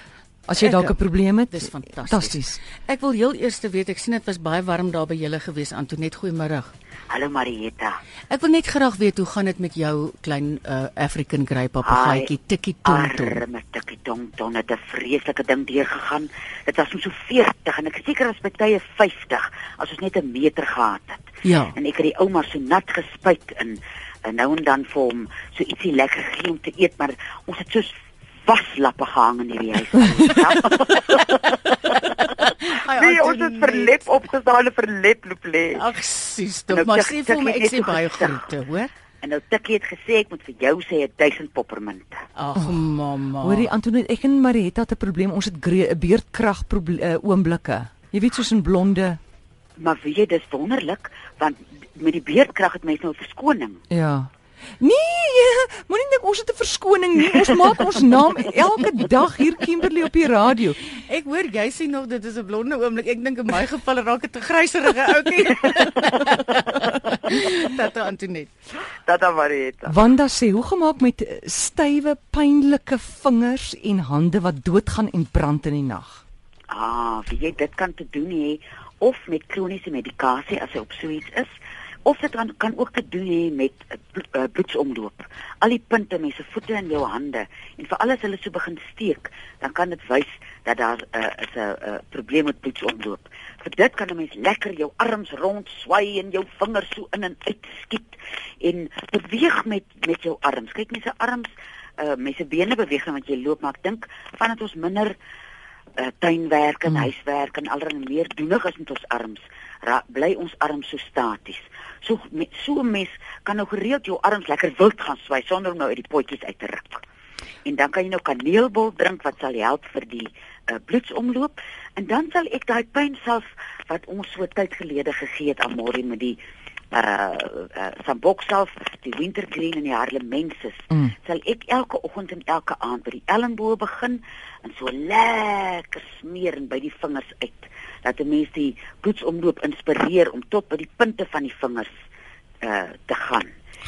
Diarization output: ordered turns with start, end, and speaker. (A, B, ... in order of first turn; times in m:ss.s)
0:00.5-0:02.6 A
0:00.6-0:01.0 B
0:01.5-0:06.7 B
0:07.1-0:08.0 C
0:08.3-0:13.4 B
0:11.8-0:12.3 C
0:12.8-0:27.9 C
0:21.4-0:21.7 B
0:28.4-0:31.7 C
0:32.3-0:34.0 B
0:32.9-0:35.8 C
0:35.7-0:38.9 B
0:36.7-0:38.4 C
0:39.2-0:42.2 C
0:42.4-0:43.7 B
0:43.4-0:49.2 A
0:49.8-0:53.8 C
0:53.9-1:00.8 A
1:01.0-1:08.5 B
1:09.0-1:10.0 C
1:09.9-1:16.2 A
1:16.7-1:21.5 C
1:22.0-1:45.2 C
1:46.0-1:57.0 C
1:57.6-2:06.4 C
2:06.9-2:21.9 C
2:22.6-2:23.5 C